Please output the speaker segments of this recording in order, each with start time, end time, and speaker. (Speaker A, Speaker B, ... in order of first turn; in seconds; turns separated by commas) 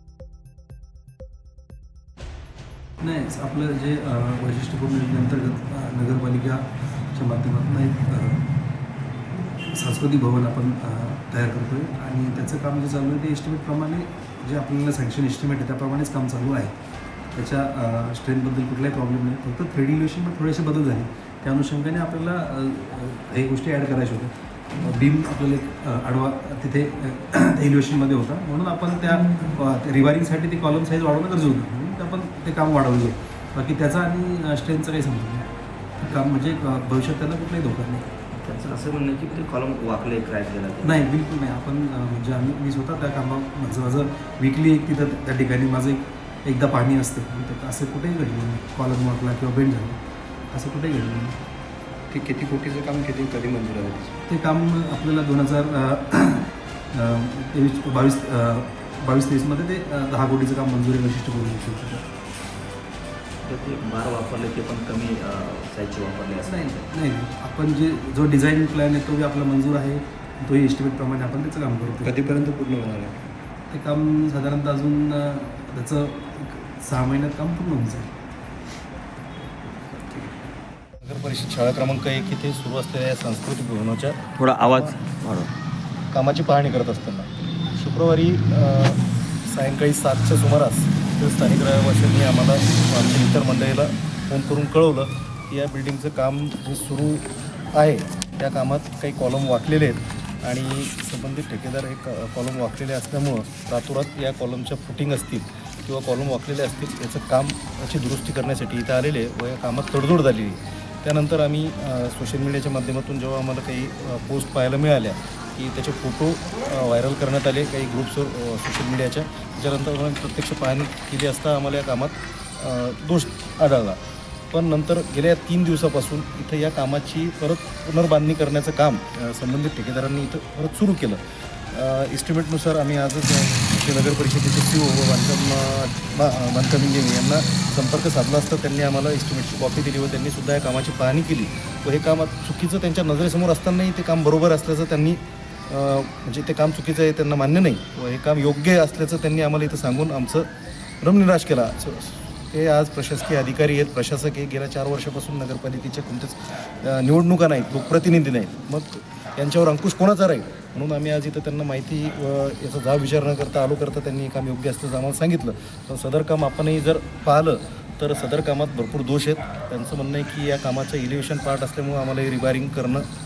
Speaker A: 3.0-8.4, Speaker A: 9.3-16.7, Speaker A: 17.3-35.5, Speaker A: 36.0-38.1, Speaker B: 38.3-41.1, Speaker A: 40.8-50.0, Speaker A: 50.5-51.4, Speaker C: 52.1-54.2, Speaker A: 54.3-62.0, Speaker B: 63.4-66.8, Speaker A: 66.5-72.2, Speaker C: 72.0-73.2, Speaker A: 73.7-78.1, Speaker C: 79.9-80.3, Speaker D: 81.0-84.2, Speaker B: 84.4-85.5, Speaker D: 86.1-124.0, Speaker D: 124.5-150.5, Speaker D: 151.0-173.1